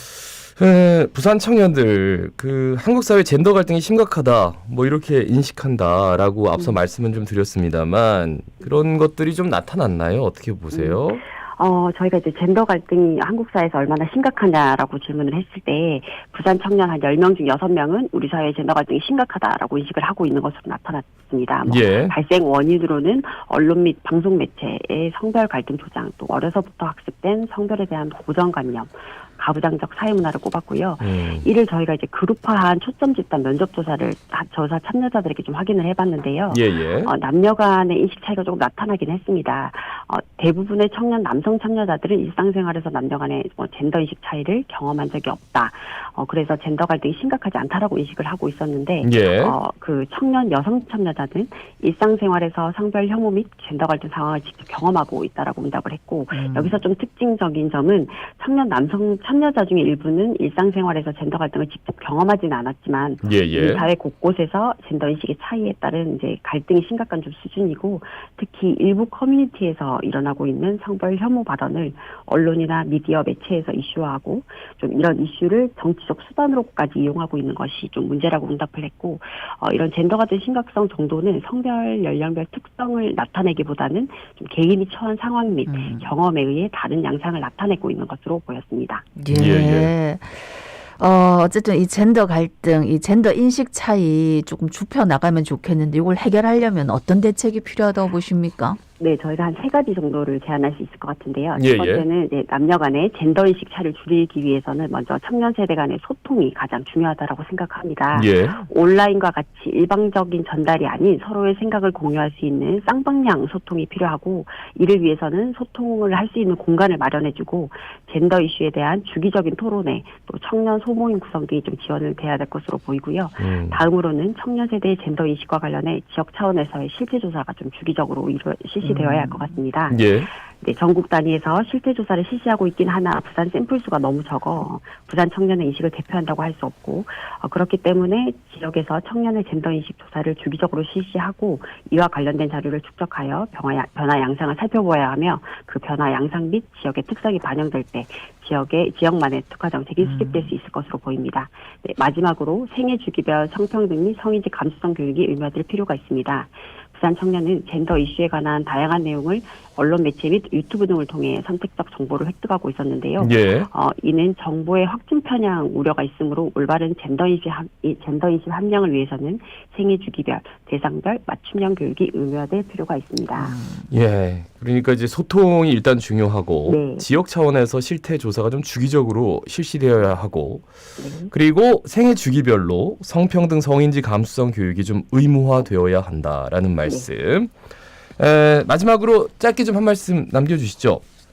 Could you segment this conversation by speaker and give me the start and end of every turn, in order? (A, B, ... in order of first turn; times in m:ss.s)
0:00.6-0:11.2 A
0:10.7-1:29.0 B
0:21.6-0:22.1 A
0:31.0-0:31.4 A
0:36.5-0:37.1 A
0:49.0-0:49.6 A
0:56.3-0:56.8 C
1:03.2-1:03.9 A
1:25.7-1:26.1 C
1:29.2-1:38.8 C
1:29.3-1:29.9 A
1:39.0-2:53.6 B
1:41.6-1:42.0 A
1:48.1-1:48.6 A
2:03.4-2:03.8 A
2:08.8-2:09.6 C
2:09.9-2:10.3 A
2:30.0-2:30.5 C
2:43.2-2:43.7 A
2:53.4-2:53.9 C
2:53.9-3:00.6 A
2:56.7-2:57.1 B
3:01.0-3:01.3 B
3:01.3-3:07.5 A
3:08.2-3:11.0 A